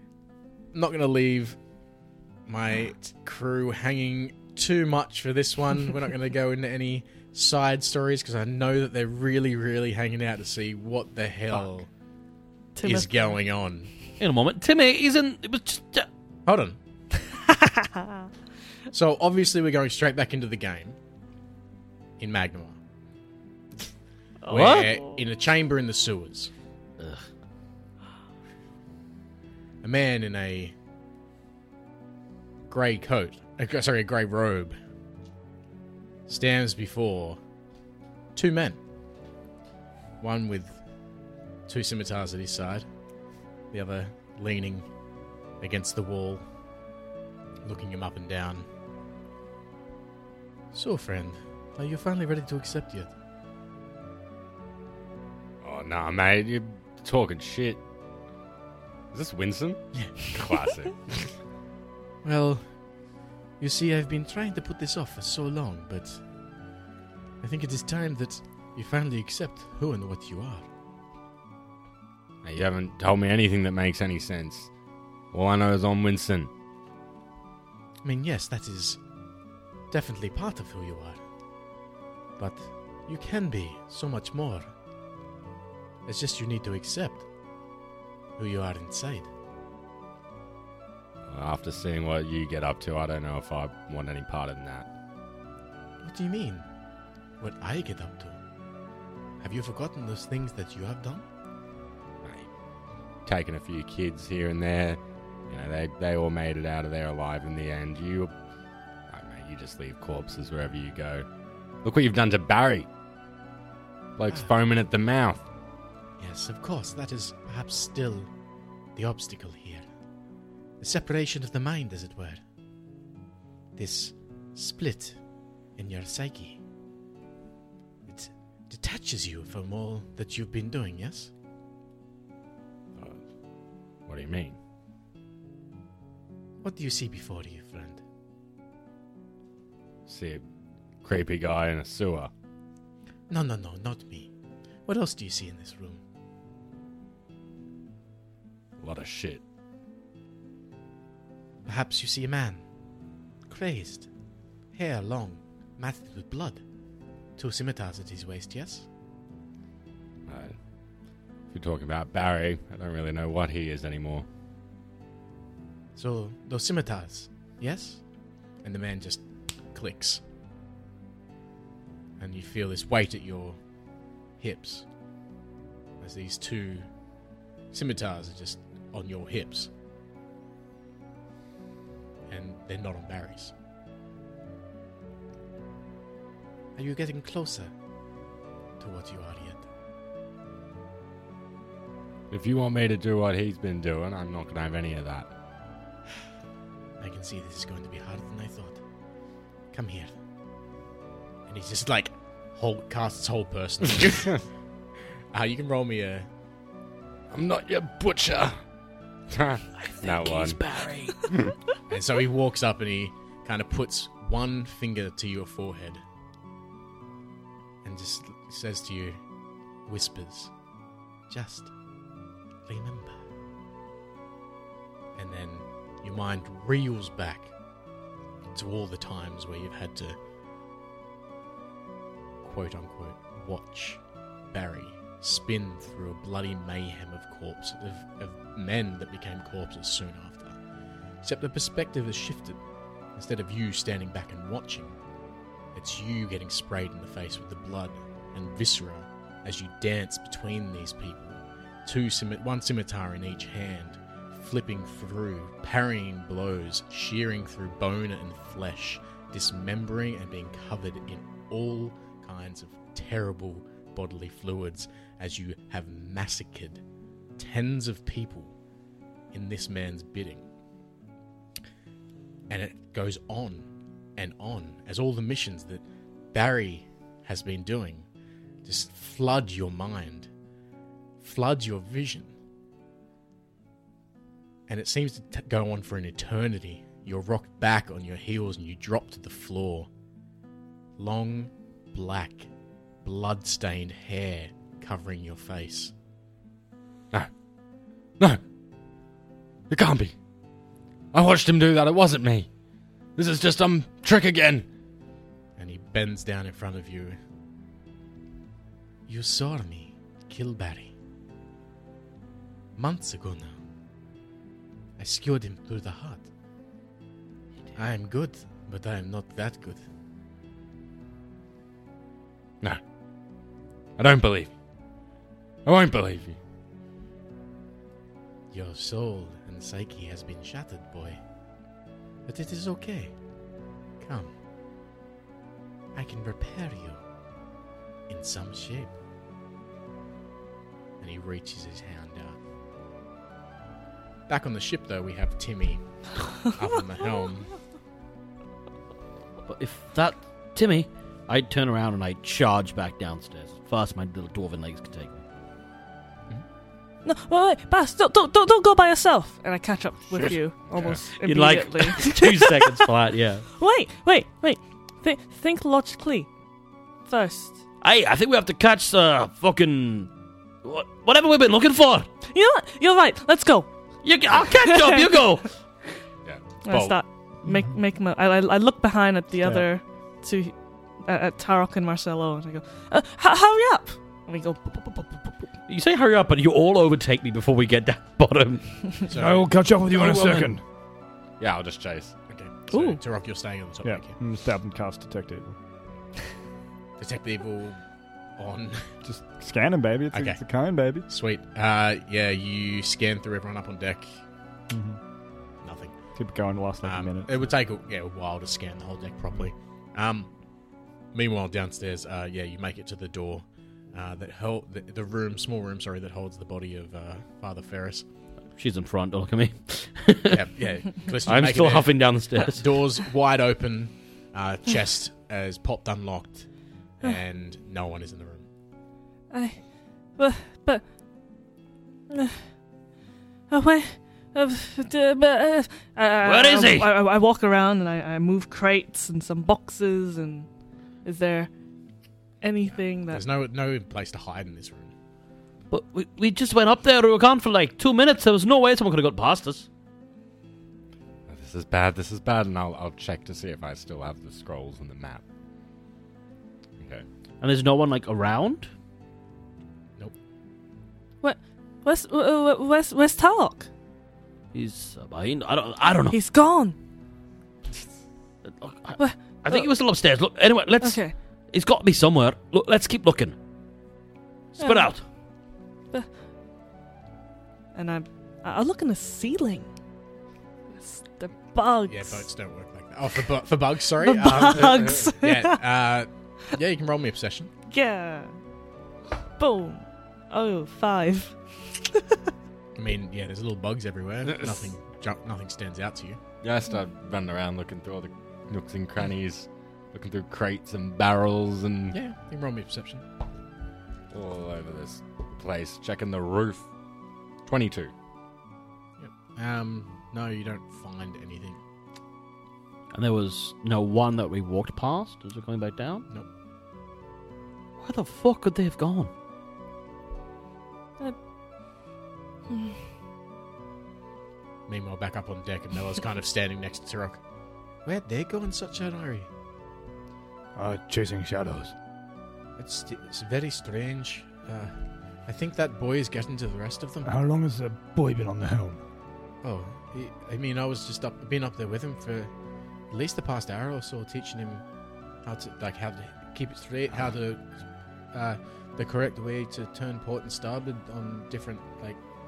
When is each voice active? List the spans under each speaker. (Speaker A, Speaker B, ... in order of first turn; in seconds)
Speaker A: 0.7-1.6, 2.5-11.9, 12.8-13.9, 16.4-16.8, 18.9-20.9, 22.2-22.8, 24.5-26.5, 29.8-30.7, 32.7-34.8, 36.3-37.4, 38.3-38.8, 40.2-40.8, 41.7-42.9, 43.7-44.9, 45.6-46.4, 47.6-48.6, 50.7-53.1, 62.2-62.7, 63.6-66.2, 67.4-70.7, 78.0-79.0, 79.9-81.2, 82.4-84.7, 86.0-87.2, 88.4-89.3, 96.0-96.7, 97.4-98.4, 99.4-101.2, 116.2-118.3, 118.9-119.8, 120.8-122.4, 123.8-125.2, 125.8-126.6, 128.1-131.3, 136.6-138.0, 143.3-144.3, 144.8-146.0, 151.6-152.7, 153.5-154.1, 154.7-156.6, 157.4-158.9, 165.9-168.0, 168.6-170.2, 172.2-173.6, 174.4-174.8, 176.0-176.9, 177.7-179.7, 182.3-183.5, 186.8-187.7, 188.8-189.6, 197.0-198.8, 199.7-200.1, 201.5-204.4, 205.3-206.3, 211.9-216.0, 217.8-219.2, 219.8-220.5, 221.3-221.7, 222.7-223.2, 225.2-227.5, 228.5-230.2, 232.4-240.6, 241.2-242.6, 243.1-245.0, 245.7-266.8, 267.4-268.5, 269.3-270.4, 272.5-278.1, 278.6-280.3, 281.2-282.3, 284.7-289.9, 291.0-292.5, 293.0-295.9, 305.6-307.2, 309.1-310.9, 312.8-313.6, 315.0-316.3, 317.7-319.9, 328.5-331.2, 332.2-333.1, 334.0-334.3, 335.9-337.0, 338.1-338.9, 341.0-342.4, 344.3-345.8, 346.4-347.5, 376.7-376.9, 389.0-389.5, 392.3-394.2, 397.0-397.8, 398.4-398.9, 400.1-400.4, 401.0-404.2, 405.6-406.0, 406.8-410.3, 411.1-418.0, 420.3-426.5, 427.0-428.4, 442.7-444.9, 481.8-487.5, 492.8-496.2, 501.9-503.0, 509.0-511.6, 524.7-527.2, 527.8-529.3, 532.6-537.1, 539.4-542.3, 542.9-544.6, 545.2-547.5, 548.1-552.0
Speaker B: 12.7-13.4, 17.5-18.0, 24.4-25.2, 357.0-362.9, 363.5-366.3, 367.1-367.6, 372.3-373.7, 374.6-375.3, 376.6-385.4, 392.7-393.0, 429.3-430.9, 432.1-432.4, 433.5-440.5, 441.0-441.5, 442.4-443.2, 461.2-463.7, 466.1-466.8, 469.0-469.7, 470.8-471.1, 474.6-475.0, 477.7-479.7, 480.7-482.3, 484.0-485.6, 487.7-488.4, 489.4-491.8
Speaker C: 14.2-16.1, 24.5-24.9, 27.0-27.2, 209.8-211.2, 349.5-355.2, 361.2-363.4, 367.8-370.1, 370.6-372.1, 374.0-375.5, 385.7-388.9, 390.1-390.4, 418.5-420.5, 421.2-422.7, 436.2-436.9, 445.7-449.7, 457.4-458.7, 464.5-466.2, 468.4-473.4, 474.6-475.0, 512.9-516.1, 517.8-519.1
Speaker D: 55.6-57.8, 59.1-61.3, 72.4-74.7, 75.3-76.5, 91.3-94.9, 102.2-102.5, 103.2-108.3, 109.1-111.2, 111.8-112.9, 114.2-115.4, 132.9-133.2, 134.1-134.6, 140.1-140.4, 141.0-142.3, 148.8-149.4, 160.3-160.6, 161.5-164.2, 192.3-195.3, 207.3-208.6, 209.3-210.6, 297.1-297.4, 299.7-300.1, 301.1-302.5, 303.1-304.6, 324.0-324.5, 325.6-326.4, 360.2-361.0, 391.4-392.1, 451.3-455.2, 456.8-457.0, 484.6-484.9, 494.2-494.6, 496.4-502.0, 504.1-506.7, 507.4-507.9
Speaker E: 377.4-377.7, 379.4-379.7, 389.2-390.6, 393.8-395.6, 399.0-401.1, 404.7-405.0, 406.1-407.4, 530.5-531.8, 537.0-538.8